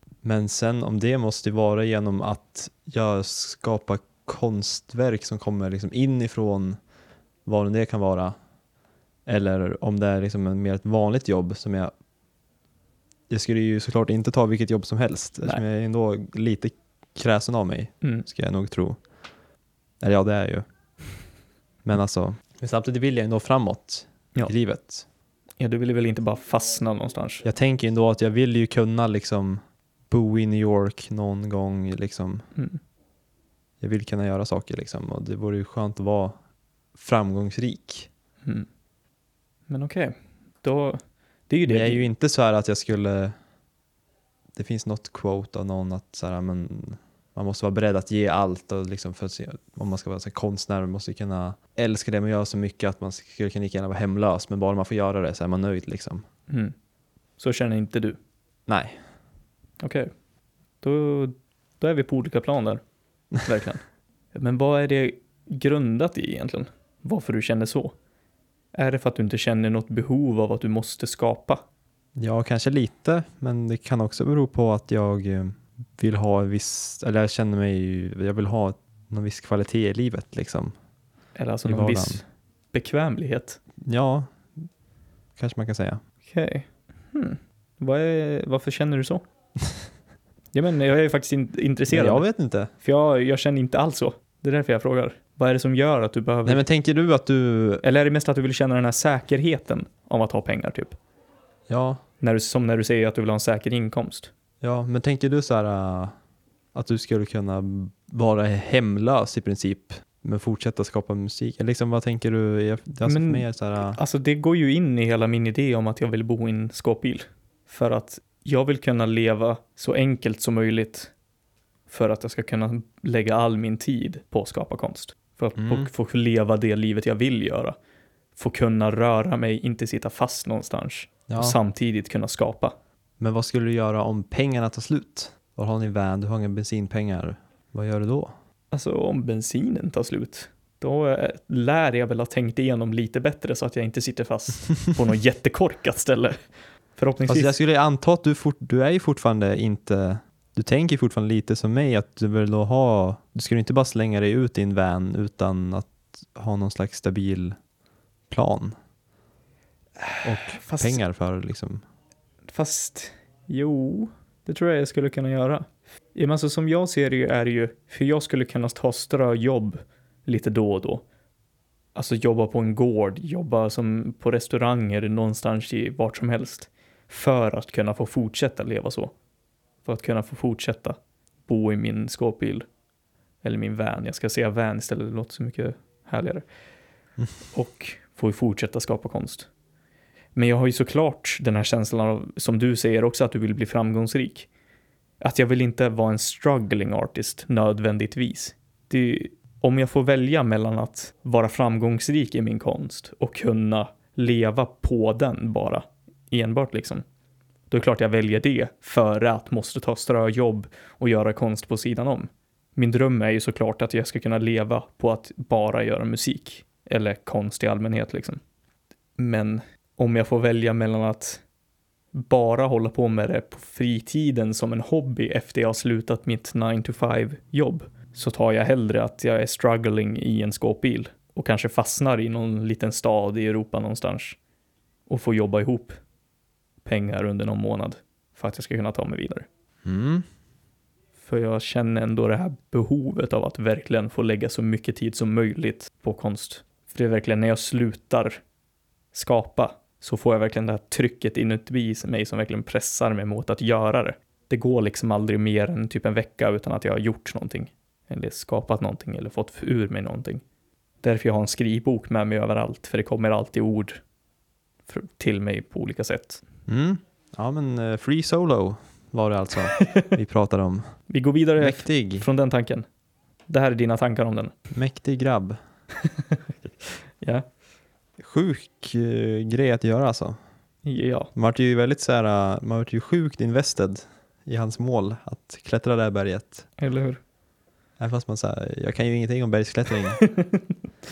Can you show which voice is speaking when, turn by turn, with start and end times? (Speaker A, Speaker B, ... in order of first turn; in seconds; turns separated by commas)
Speaker A: 0.2-6.8, Speaker A: 7.5-8.3, Speaker A: 9.3-11.9, Speaker A: 13.3-19.0, Speaker A: 20.0-20.6, Speaker A: 21.8-25.0, Speaker B: 25.6-27.4, Speaker A: 27.4-32.4, Speaker B: 32.5-32.8, Speaker A: 33.8-36.3, Speaker A: 37.0-38.1, Speaker B: 39.7-42.1, Speaker A: 41.7-43.3, Speaker A: 44.5-56.2, Speaker B: 56.5-56.7, Speaker B: 57.4-58.2, Speaker A: 58.7-59.0, Speaker B: 59.8-60.1, Speaker B: 60.8-62.8, Speaker B: 63.4-67.9, Speaker B: 68.7-71.6, Speaker A: 72.2-80.7, Speaker B: 81.3-83.6, Speaker A: 81.6-82.2, Speaker A: 83.8-84.7, Speaker A: 85.4-86.0, Speaker B: 86.2-89.2, Speaker B: 90.5-92.2, Speaker A: 91.9-92.7, Speaker B: 92.8-96.6, Speaker A: 96.4-97.8, Speaker B: 97.8-101.0, Speaker A: 101.7-102.0, Speaker B: 102.2-104.3, Speaker A: 104.6-106.1, Speaker A: 106.7-114.0, Speaker B: 113.0-121.1, Speaker B: 121.9-127.7, Speaker A: 125.5-125.9, Speaker B: 128.4-132.7, Speaker A: 131.3-131.6, Speaker A: 133.2-138.3, Speaker B: 138.7-146.4, Speaker B: 146.9-147.5, Speaker A: 147.3-157.6, Speaker A: 158.3-158.7, Speaker B: 160.0-161.0, Speaker A: 160.2-161.8, Speaker B: 162.5-171.0, Speaker B: 171.9-179.1, Speaker B: 179.8-182.7, Speaker B: 183.4-186.4, Speaker B: 187.5-189.5, Speaker B: 190.3-194.5, Speaker B: 195.2-207.0, Speaker B: 207.7-218.4, Speaker B: 219.2-221.4, Speaker B: 222.1-234.4, Speaker B: 235.1-236.0, Speaker B: 236.8-239.5, Speaker A: 239.8-240.2, Speaker B: 241.2-248.4, Speaker B: 249.1-260.4, Speaker B: 261.0-264.0, Speaker B: 264.9-266.4, Speaker A: 266.7-270.9, Speaker B: 269.7-270.1, Speaker B: 271.1-272.9, Speaker A: 271.6-272.3, Speaker B: 273.5-274.5, Speaker A: 274.7-275.6, Speaker B: 276.0-277.4, Speaker A: 278.2-280.4, Speaker B: 280.9-281.3, Speaker A: 281.4-286.7, Speaker B: 286.8-287.2, Speaker A: 288.0-290.2, Speaker B: 290.2-290.7